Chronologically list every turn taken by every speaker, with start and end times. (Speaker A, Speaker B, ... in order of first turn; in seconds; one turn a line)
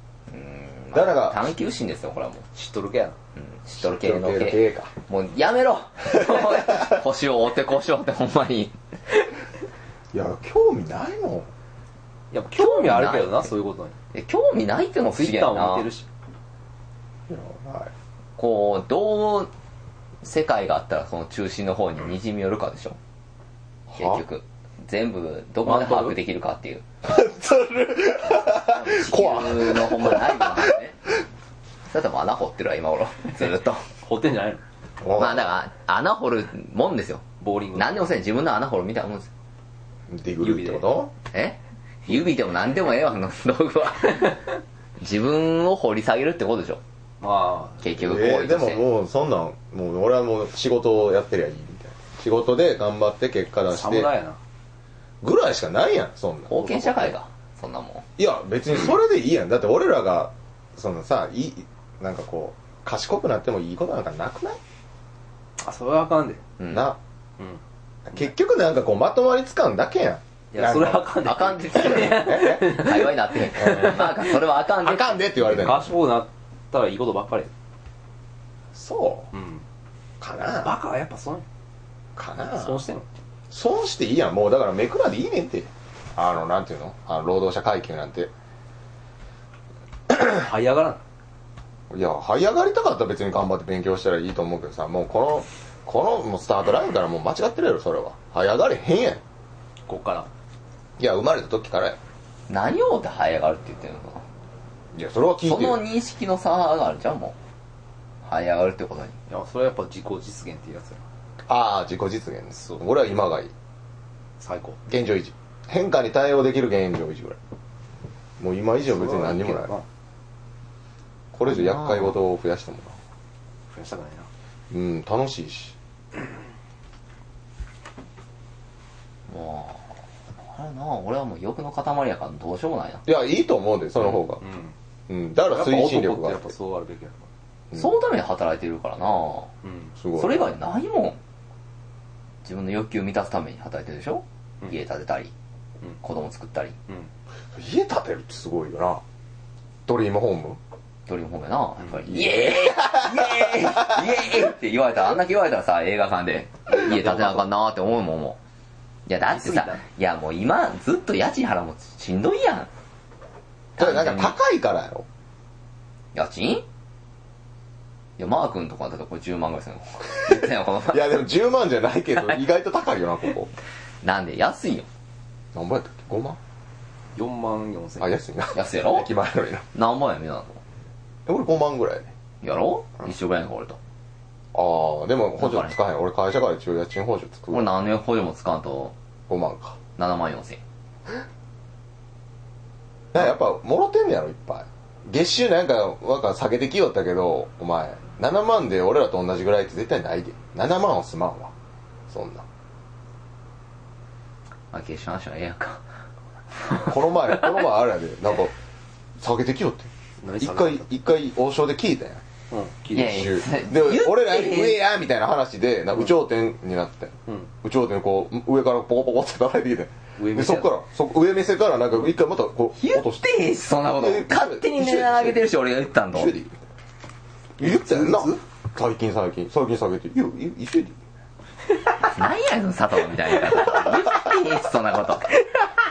Speaker A: 0.3-2.4
Speaker B: 0.9-1.4
Speaker C: 2.5-3.2
Speaker A: 3.4-8.7
Speaker B: 3.8-4.9
Speaker B: 6.1-7.0
Speaker B: 10.1-11.5
Speaker C: 12.3-13.9
Speaker A: 12.6-13.5
Speaker A: 14.1-15.9
Speaker C: 15.1-16.1
Speaker B: 17.3-17.9
Speaker A: 18.4-19.5
Speaker A: 20.2-23.0
Speaker B: 23.9-24.2
Speaker A: 23.9-26.8
Speaker C: 25.6-26.1
Speaker B: 27.0-30.8
Speaker A: 28.4-31.0
Speaker A: 31.9-33.9
Speaker C: 34.0-34.6
Speaker B: 35.0-35.5
Speaker A: 35.1-39.3
Speaker C: 37.4-38.0
Speaker B: 40.1-41.1
Speaker C: 40.4-40.9
Speaker A: 41.3-44.4
Speaker A: 45.0-46.8
Speaker C: 47.2-47.9
Speaker A: 47.8-48.8
Speaker B: 48.0-54.1
Speaker C: 53.7-54.4
Speaker B: 55.2-57.1
Speaker A: 56.5-58.0
Speaker B: 58.2-64.6
Speaker C: 65.6-66.4
Speaker A: 66.6-66.9
Speaker B: 66.7-67.0
Speaker B: 68.1-71.1
Speaker C: 70.5-74.3
Speaker A: 71.2-75.3
Speaker B: 71.7-72.8
Speaker B: 73.7-74.0
Speaker B: 74.8-75.9
Speaker C: 75.4-77.5
Speaker B: 78.7-79.3
Speaker C: 79.3-79.6
Speaker B: 80.2-80.7
Speaker C: 80.6-81.4
Speaker B: 82.2-82.8
Speaker C: 82.6-83.0
Speaker B: 83.5-88.3
Speaker C: 90.1-91.0
Speaker B: 91.9-99.2
Speaker C: 99.9-100.3
Speaker B: 101.0-102.0
Speaker A: 102.5-104.2
Speaker B: 104.9-105.8
Speaker A: 105.4-107.3
Speaker A: 108.2-109.2
Speaker C: 109.3-111.0
Speaker B: 111.5-113.5
Speaker C: 112.6-112.8
Speaker C: 114.4-114.8
Speaker B: 114.9-117.4
Speaker B: 118.4-119.7
Speaker C: 118.8-119.8
Speaker B: 121.3-123.0
Speaker A: 121.4-122.2
Speaker C: 123.7-124.3
Speaker B: 124.7-125.7
Speaker A: 129.3-129.9
Speaker A: 130.4-133.0
Speaker B: 133.0-134.4
Speaker C: 134.4-134.7
Speaker B: 135.1-136.5
Speaker C: 135.5-137.3
Speaker A: 137.7-139.5
Speaker C: 139.6-139.9
Speaker B: 140.0-140.5
Speaker A: 140.1-141.2
Speaker A: 142.4-145.3
Speaker A: 146.0-146.8
Speaker B: 147.5-149.0
Speaker B: 149.8-150.6
Speaker A: 151.1-158.4
Speaker B: 152.1-154.1
Speaker C: 156.7-157.4
Speaker A: 159.1-162.7
Speaker C: 159.2-159.8
Speaker A: 163.8-164.3
Speaker B: 163.8-165.1
Speaker A: 166.1-166.6
Speaker A: 168.2-171.1
Speaker B: 170.3-173.5
Speaker A: 174.0-174.9
Speaker B: 175.5-176.4
Speaker C: 177.2-178.2
Speaker B: 178.0-179.6
Speaker A: 178.5-179.1
Speaker A: 179.7-180.6
Speaker B: 181.2-182.1
Speaker A: 182.4-183.8
Speaker B: 184.5-187.8
Speaker A: 185.4-185.7
Speaker A: 187.5-188.9
Speaker B: 189.3-189.8
Speaker A: 190.0-190.6
Speaker B: 193.1-201.5
Speaker B: 202.1-202.4
Speaker A: 204.7-205.8
Speaker A: 206.7-206.9
Speaker B: 206.7-208.5
Speaker B: 209.2-212.2
Speaker C: 210.2-210.9
Speaker C: 212.5-213.3
Speaker A: 212.9-214.8
Speaker B: 212.9-223.3
Speaker C: 220.2-220.7
Speaker A: 222.8-226.3
Speaker B: 223.9-225.5
Speaker B: 226.1-226.5
Speaker C: 227.6-228.4
Speaker B: 227.6-231.0
Speaker A: 232.1-235.3